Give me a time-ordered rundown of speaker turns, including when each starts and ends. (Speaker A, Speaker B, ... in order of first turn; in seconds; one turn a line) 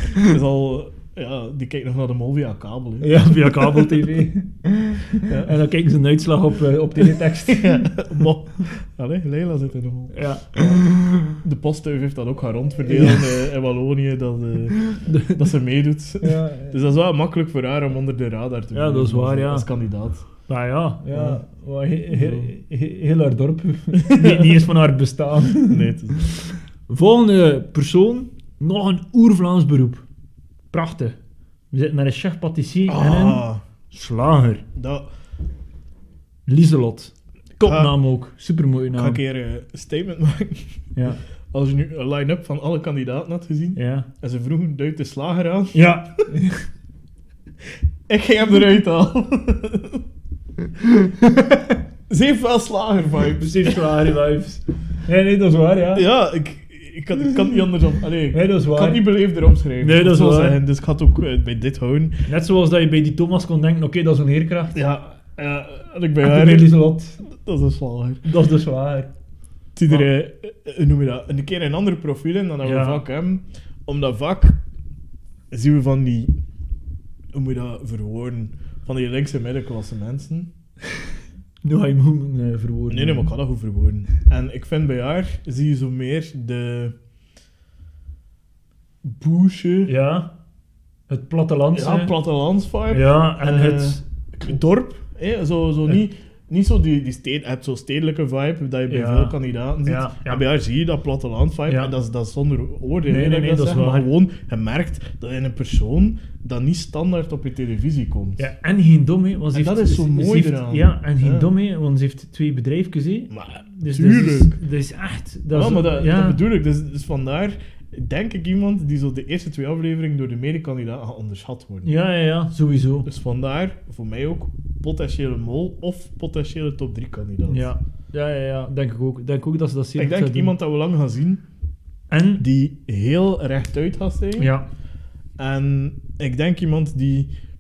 Speaker A: 0.1-3.9
Speaker B: 3.0-8.0
Speaker A: 5.2-5.5
Speaker A: 7.5-20.3
Speaker B: 10.1-11.3
Speaker B: 12.8-13.4
Speaker B: 14.9-15.5
Speaker B: 16.2-16.8
Speaker B: 18.7-19.7
Speaker B: 20.4-30.0
Speaker A: 21.1-21.4
Speaker A: 22.1-22.5
Speaker A: 24.0-24.6
Speaker A: 25.7-26.2
Speaker B: 30.7-31.2
Speaker B: 31.7-34.6
Speaker A: 32.9-33.6
Speaker A: 34.8-35.0
Speaker B: 36.5-39.2
Speaker A: 37.6-37.9
Speaker A: 38.9-40.8
Speaker B: 40.9-41.2
Speaker A: 41.5-45.9
Speaker B: 43.8-44.1
Speaker B: 45.7-46.7
Speaker A: 48.1-50.0
Speaker B: 51.3-51.5
Speaker A: 52.1-53.9
Speaker B: 53.4-56.0
Speaker A: 55.9-62.2
Speaker B: 58.3-59.0
Speaker B: 59.8-60.6
Speaker B: 62.3-64.8
Speaker A: 64.7-68.2
Speaker B: 66.2-67.2
Speaker B: 68.2-69.1
Speaker A: 69.8-74.6
Speaker B: 72.6-73.0
Speaker A: 75.5-76.3
Speaker A: 77.3-80.5
Speaker B: 81.6-83.3
Speaker A: 82.9-86.9
Speaker A: 89.0-89.9
Speaker B: 89.9-90.3
Speaker B: 91.1-92.1
Speaker A: 91.7-108.5
Speaker B: 92.9-94.0
Speaker B: 98.9-100.4
Speaker B: 101.7-101.9
Speaker B: 103.0-104.1
Speaker B: 108.4-116.4
Speaker A: 109.5-111.5
Speaker A: 113.3-114.6
Speaker A: 115.5-121.9
Speaker B: 121.8-123.1
Speaker A: 123.0-127.7
Speaker B: 127.5-130.5
Speaker A: 130.0-131.4
Speaker B: 132.1-132.4
Speaker A: 132.4-134.5
Speaker B: 134.4-134.7
Speaker A: 135.4-137.3